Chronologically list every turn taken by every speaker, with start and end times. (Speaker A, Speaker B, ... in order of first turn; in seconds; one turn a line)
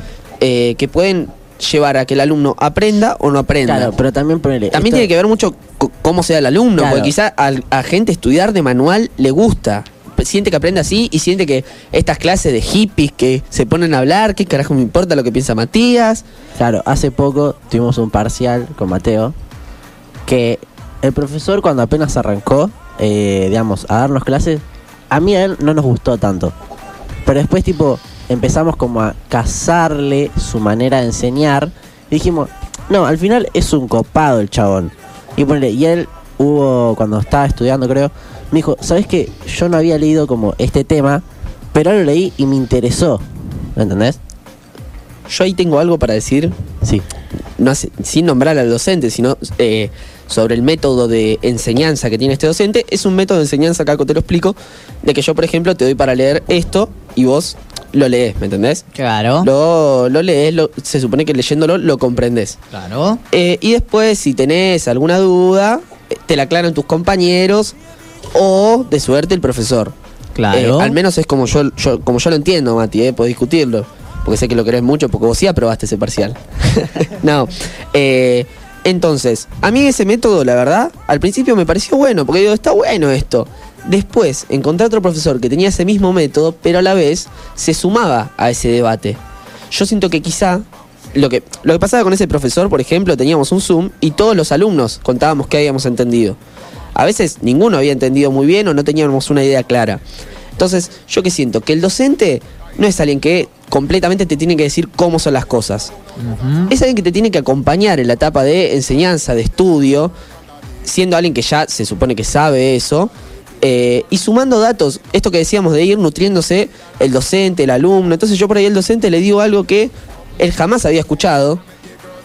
Speaker A: 0.4-3.9
Speaker B: 3.6-5.1
Speaker A: 4.7-16.2
Speaker B: 6.8-7.1
Speaker B: 16.6-19.3
Speaker B: 20.2-26.5
Speaker B: 27.2-44.2
Speaker A: 45.3-46.5
Speaker A: 47.6-58.8
Speaker C: 58.9-59.5
Speaker A: 59.4-62.6
Speaker C: 62.7-63.2
Speaker A: 63.3-67.7
Speaker A: 68.3-69.9
Speaker C: 70.4-71.0
Speaker A: 70.5-89.2
Speaker A: 89.7-96.4
Speaker A: 97.0-100.0
Speaker A: 100.6-105.9
Speaker C: 106.2-106.7
Speaker A: 106.7-110.1
Speaker A: 110.8-113.1
Speaker A: 113.6-121.6